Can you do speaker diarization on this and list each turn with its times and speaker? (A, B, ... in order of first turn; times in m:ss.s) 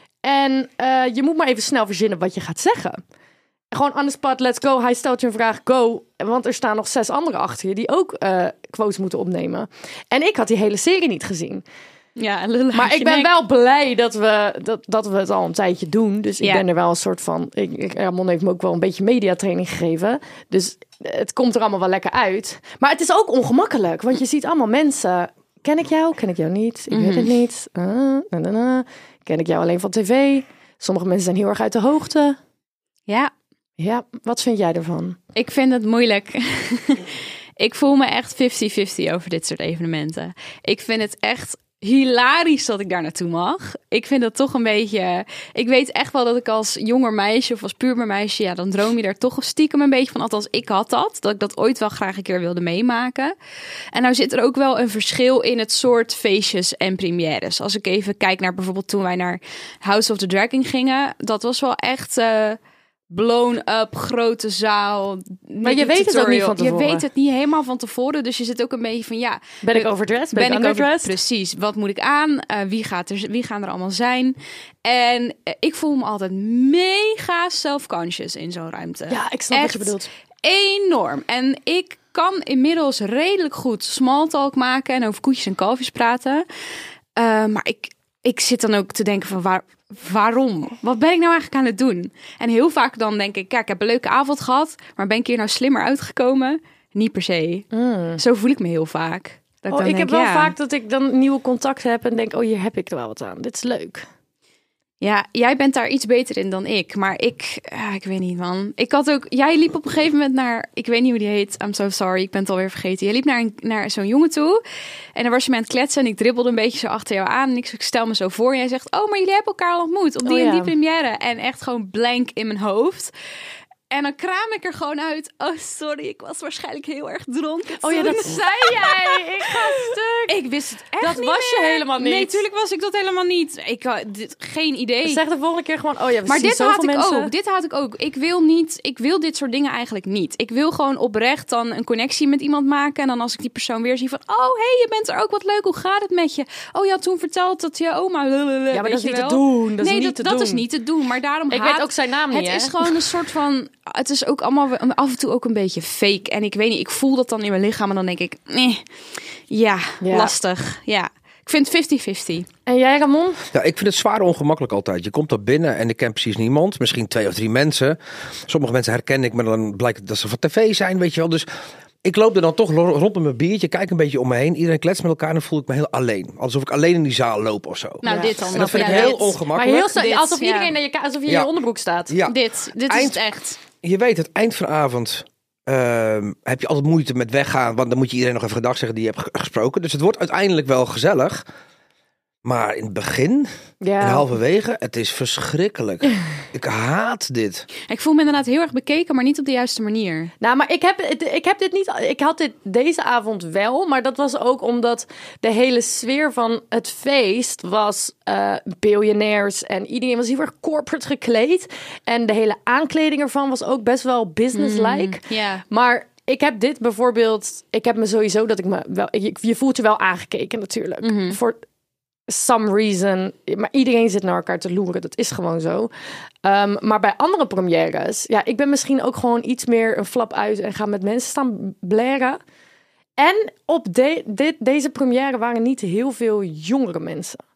0:00.2-0:03.0 A
0:03.7-0:11.6 A
0:12.2-0:13.3 B
0:12.7-0:32.4 A
0:26.9-0:27.3 B
0:33.8-0:35.2 A
0:35.3-0:53.3 B
0:53.9-1:02.6 B
1:03.1-1:19.9 B
1:05.6-1:07.0 A
1:09.6-1:11.1 A
1:19.1-1:20.1 A
1:20.4-1:26.4 B
1:27.2-1:40.5 B
1:37.7-1:38.2 A
1:39.7-1:44.1 A
1:45.0-1:54.6 B
1:55.2-2:03.1 B
2:00.2-2:00.7 A
2:03.9-2:09.7 B
2:07.8-2:10.4 A
2:10.3-2:15.2 B
2:11.0-2:12.4 A
2:15.0-2:17.3 A
2:16.2-2:38.8 B
2:28.7-2:30.6 A
2:31.5-2:33.0 A
2:39.5-2:42.5 B
2:40.0-2:40.4 A
2:42.7-2:43.4 A
2:43.5-2:51.5 C
2:52.0-2:59.9 C
2:58.0-3:00.7 B
2:58.0-3:02.1 A
3:01.3-3:01.5 C
3:02.1-3:03.2 C
3:02.2-3:03.6 B
3:03.8-3:11.4 C
3:12.4-3:17.7 C
3:13.8-3:14.3 A
3:17.9-3:20.3 B
3:20.4-3:41.6 A
3:34.5-3:35.6 B
3:41.0-3:41.4 B
3:42.3-3:45.9 A
3:46.4-3:52.4 A
3:53.2-3:57.4 A